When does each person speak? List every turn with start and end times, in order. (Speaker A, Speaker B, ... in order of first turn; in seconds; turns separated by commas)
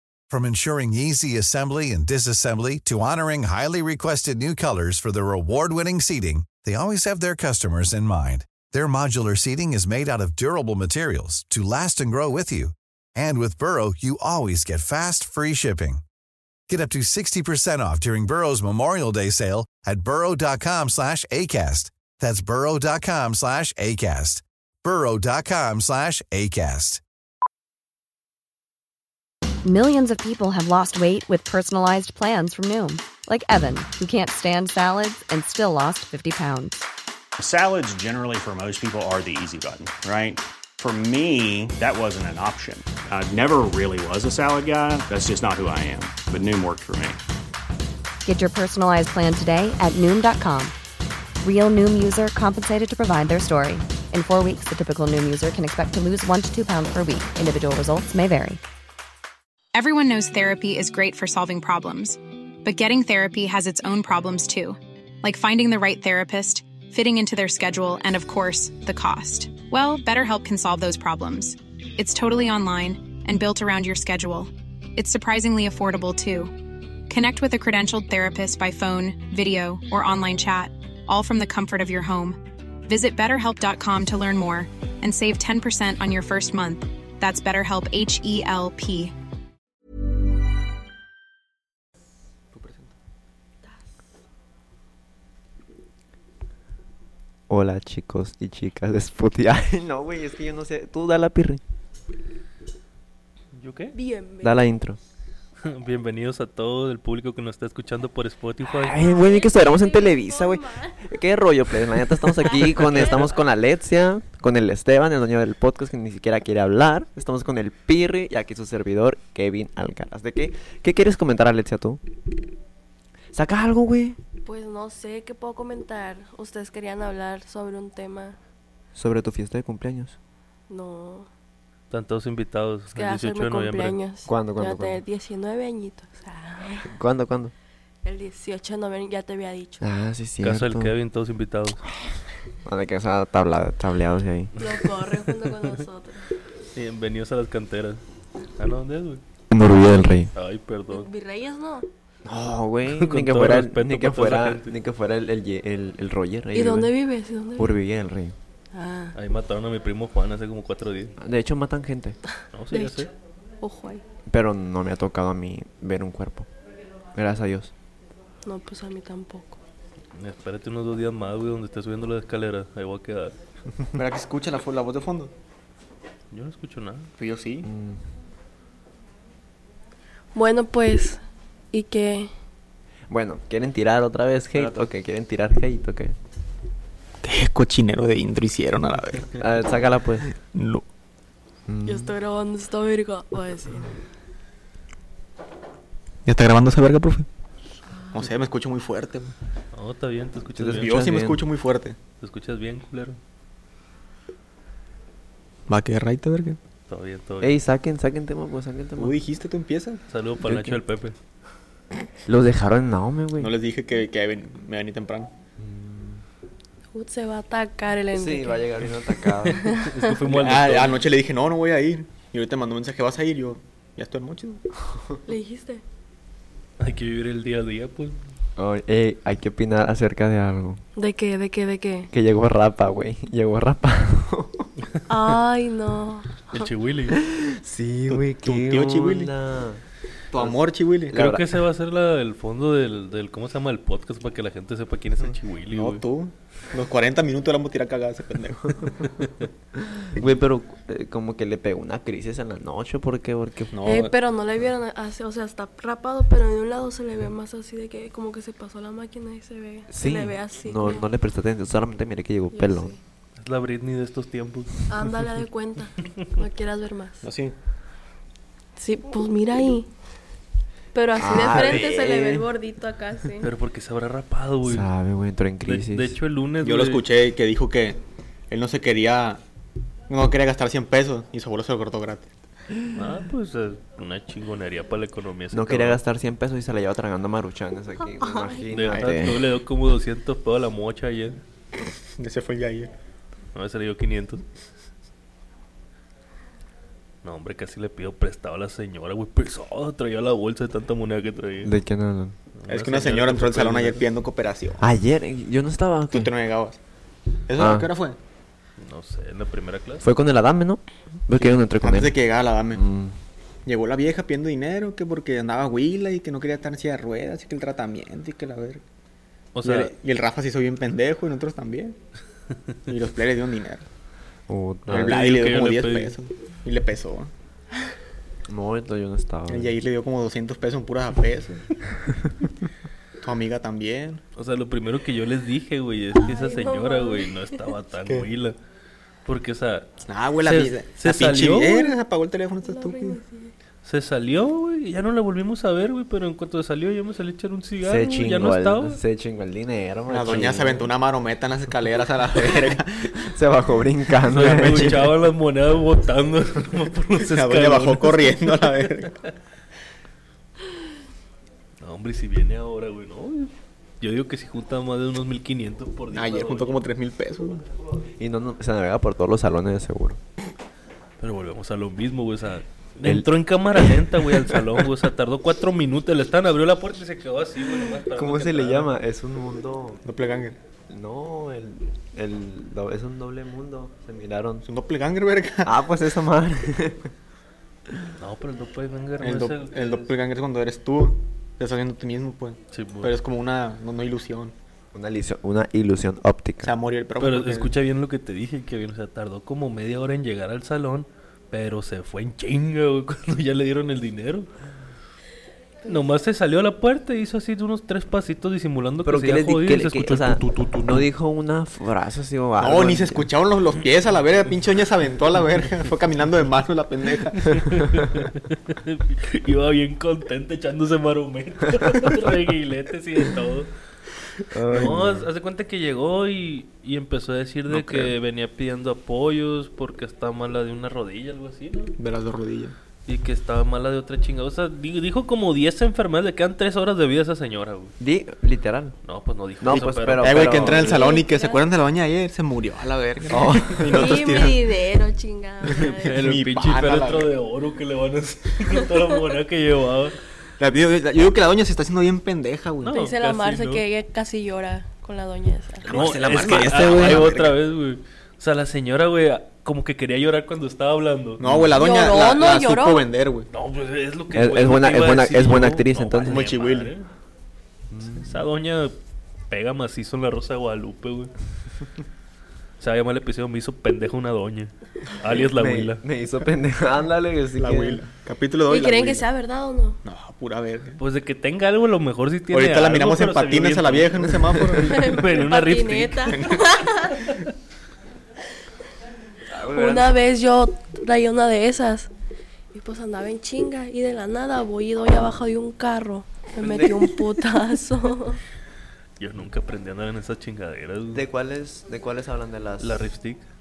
Speaker A: 0.3-16.0, Speaker A: 16.7-27.0, Speaker B: 29.6-36.8, Speaker C: 37.4-47.2, Speaker B: 48.2-50.7, Speaker B: 51.4-58.6, Speaker D: 59.7-76.5, Speaker D: 77.1-89.1, Speaker E: 92.5-92.9, Speaker F: 97.5-101.6, Speaker G: 103.5-103.9, Speaker H: 103.9-104.7, Speaker F: 104.4-105.0, Speaker G: 105.6-109.0, Speaker F: 108.6-122.0, Speaker H: 108.9-111.0, Speaker H: 112.5-113.2, Speaker G: 112.9-113.2, Speaker F: 123.3-124.2, Speaker H: 124.4-128.4, Speaker F: 128.9-130.2, Speaker H: 130.7-131.3, Speaker G: 131.9-134.0, Speaker H: 132.9-136.9, Speaker F: 134.2-135.0, Speaker F: 136.9-137.5, Speaker H: 138.0-139.8, Speaker F: 139.8-140.9, Speaker G: 140.4-141.8, Speaker F: 142.6-144.5, Speaker H: 144.6-146.3, Speaker G: 146.7-148.0, Speaker G: 148.6-149.2, Speaker F: 149.5-150.3, Speaker G: 150.3-151.1, Speaker H: 150.9-151.9, Speaker F: 152.2-156.9, Speaker G: 152.9-154.7, Speaker H: 156.5-157.7, Speaker F: 157.6-158.3, Speaker H: 158.7-159.1, Speaker G: 159.1-161.1, Speaker F: 161.2-162.2, Speaker G: 162.5-163.1, Speaker H: 162.7-163.1, Speaker H: 163.6-164.0, Speaker F: 164.3-166.5, Speaker F: 167.1-167.7, Speaker H: 168.4-169.6, Speaker G: 170.2-173.3, Speaker E: 173.9-175.3, Speaker G: 176.3-177.1, Speaker E: 177.2-177.7, Speaker F: 177.6-178.0, Speaker H: 180.3-181.2, Speaker H: 181.7-182.3, Speaker F: 183.1-186.1, Speaker E: 187.2-189.4, Speaker F: 189.4-190.3, Speaker E: 190.5-190.8, Speaker F: 191.7-192.1, Speaker H: 191.8-193.9, Speaker E: 196.2-197.3, Speaker E: 198.1-199.3, Speaker G: 199.7-200.9, Speaker F: 200.5-201.4, Speaker E: 200.8-202.0, Speaker G: 202.2-203.2, Speaker E: 205.7-206.6, Speaker G: 206.9-207.5, Speaker F: 207.4-209.2, Speaker E: 209.0-210.0, Speaker G: 210.1-211.1, Speaker F: 210.4-210.8, Speaker F: 212.2-213.5, Speaker E: 213.4-215.3, Speaker F: 215.6-216.2, Speaker H: 216.9-218.6, Speaker F: 218.1-219.7, Speaker H: 219.5-220.1, Speaker G: 219.7-221.0, Speaker E: 220.3-224.6, Speaker H: 225.2-225.8, Speaker G: 226.8-228.1, Speaker F: 228.6-230.8, Speaker H: 231.0-232.1, Speaker F: 232.1-234.7, Speaker H: 235.1-236.6, Speaker G: 236.5-237.2, Speaker F: 237.1-239.8, Speaker E: 238.1-239.3, Speaker E: 240.3-241.1, Speaker F: 241.1-241.6, Speaker G: 241.1-246.0, Speaker E: 245.7-249.3, Speaker F: 249.9-253.7, Speaker E: 253.7-254.1, Speaker H: 253.8-261.0, Speaker F: 259.9-262.9, Speaker H: 262.5-263.0, Speaker G: 263.4-264.8, Speaker H: 264.9-267.2, Speaker E: 267.2-267.5, Speaker H: 268.8-269.9, Speaker H: 270.9-273.5, Speaker F: 271.1-272.5, Speaker G: 273.4-274.9, Speaker F: 274.6-276.1, Speaker G: 275.6-277.0, Speaker E: 276.6-278.0, Speaker E: 278.5-279.4, Speaker E: 280.1-282.3, Speaker G: 282.9-286.0, Speaker F: 285.5-289.5, Speaker H: 288.2-288.5, Speaker G: 288.7-291.4, Speaker E: 292.2-292.9, Speaker G: 293.5-294.4, Speaker G: 297.2-301.7, Speaker F: 301.6-302.4, Speaker G: 302.6-304.0, Speaker E: 302.7-304.9, Speaker F: 304.8-306.3, Speaker E: 306.1-306.8, Speaker E: 307.5-308.1, Speaker F: 307.6-307.9, Speaker G: 308.8-310.0, Speaker F: 310.0-312.2, Speaker E: 311.4-312.8, Speaker F: 312.7-313.1, Speaker E: 313.6-318.8, Speaker G: 319.5-319.9, Speaker E: 319.6-321.9, Speaker E: 322.9-323.9, Speaker F: 324.5-325.2, Speaker G: 324.9-326.1, Speaker E: 324.9-327.3, Speaker F: 328.5-329.8, Speaker E: 329.5-331.7, Speaker E: 333.2-334.2, Speaker G: 334.4-338.6, Speaker H: 336.2-337.3, Speaker G: 339.2-339.9, Speaker E: 340.1-343.2, Speaker G: 340.4-341.9, Speaker H: 342.6-343.5, Speaker G: 343.8-349.0, Speaker F: 347.8-350.9, Speaker E: 350.1-353.3, Speaker F: 352.3-355.1, Speaker G: 354.3-358.9, Speaker E: 354.4-355.1, Speaker E: 357.2-359.2, Speaker G: 361.8-366.8, Speaker E: 366.1-367.6, Speaker F: 368.2-370.2, Speaker G: 371.2-378.9, Speaker F: 373.0-374.8, Speaker F: 378.1-380.0, Speaker E: 380.0-380.6, Speaker F: 380.9-384.6, Speaker E: 384.6-385.7, Speaker F: 385.6-387.1, Speaker G: 388.2-390.1, Speaker E: 389.2-394.5, Speaker G: 392.7-393.1, Speaker F: 394.9-396.7, Speaker E: 396.6-397.7, Speaker G: 397.2-404.5, Speaker G: 405.8-411.0, Speaker F: 409.0-413.3, Speaker E: 412.6-417.8, Speaker G: 417.5-423.7, Speaker F: 424.5-425.3, Speaker G: 424.7-431.9, Speaker F: 427.7-428.1, Speaker E: 432.0-432.7, Speaker G: 433.1-437.9, Speaker F: 438.0-438.9, Speaker G: 439.0-440.4, Speaker F: 439.6-441.1, Speaker E: 440.2-444.7, Speaker H: 440.4-441.6, Speaker F: 443.3-444.5, Speaker H: 443.9-446.1, Speaker E: 445.7-447.3, Speaker G: 446.0-450.1, Speaker E: 450.6-452.9, Speaker G: 452.8-453.8, Speaker H: 452.8-455.8, Speaker G: 455.8-461.4, Speaker F: 455.9-457.3, Speaker E: 455.9-457.6, Speaker E: 461.4-463.5, Speaker F: 461.4-461.8, Speaker H: 461.8-463.1, Speaker G: 463.5-467.1, Speaker F: 464.3-466.4, Speaker E: 466.2-466.9, Speaker F: 467.9-468.4, Speaker G: 468.2-468.9, Speaker G: 469.5-471.3, Speaker G: 472.8-476.0, Speaker F: 475.2-478.0, Speaker E: 477.6-479.3, Speaker H: 478.7-480.0, Speaker E: 480.0-481.0, Speaker G: 481.0-486.5, Speaker E: 482.5-485.2, Speaker H: 484.8-487.2, Speaker E: 486.3-486.8, Speaker F: 489.4-490.2, Speaker H: 489.7-492.1, Speaker H: 492.7-498.4, Speaker F: 496.6-497.2, Speaker G: 499.2-501.2, Speaker F: 501.1-503.1, Speaker G: 502.8-503.4